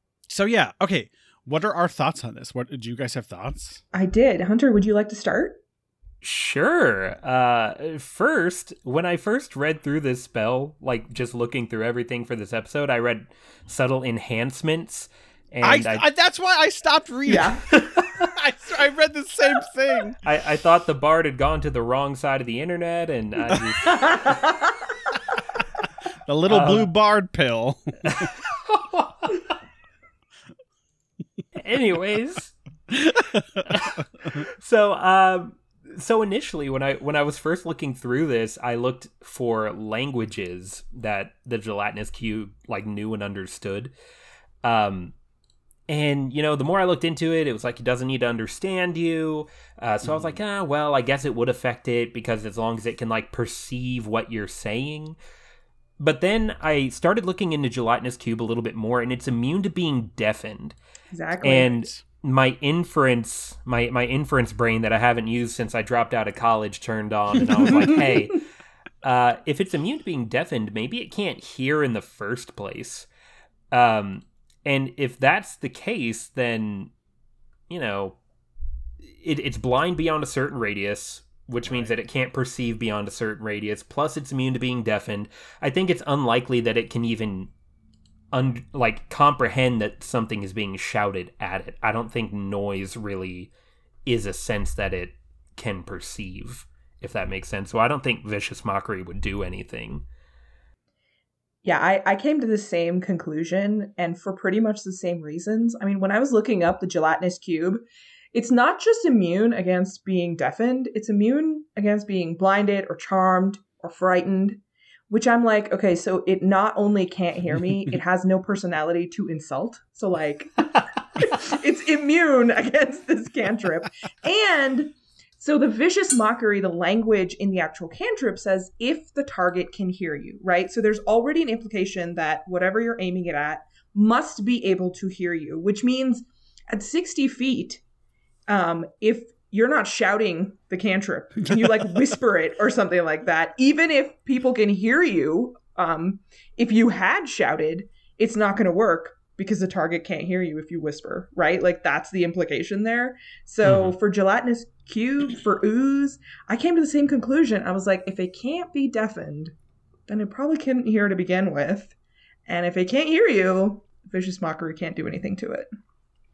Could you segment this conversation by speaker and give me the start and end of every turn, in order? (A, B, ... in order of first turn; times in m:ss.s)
0:00.3-0:03.8 A
0:03.9-0:05.6 B
0:06.2-0:16.0 C
0:15.6-0:20.2 A
0:17.3-0:17.6 B
0:17.7-0:18.2 C
0:20.2-0:24.5 C
0:24.0-0:24.7 B
0:26.3-0:28.3 A
0:26.5-0:26.9 C
0:28.0-0:29.3 C
0:31.6-0:32.5 C
0:32.9-0:33.7 A
0:33.6-0:43.9 C
0:44.6-0:45.1 C
0:45.9-0:55.2 C
0:50.0-0:50.4 A
0:56.0-1:00.7 C
1:01.1-1:01.7 B
1:01.4-1:08.4 C
1:01.7-1:01.9 A
1:09.0-1:13.1 C
1:13.7-1:16.9 C
1:17.7-1:18.2 C
1:19.1-1:27.5 C
1:21.6-1:21.9 A
1:28.3-1:33.5 C
1:34.0-1:40.0 C
1:41.6-1:47.8 B
1:48.3-2:17.8 B
2:18.5-2:39.5 B
2:33.6-2:33.9 C
2:40.1-2:41.9 B
2:42.5-2:45.7 B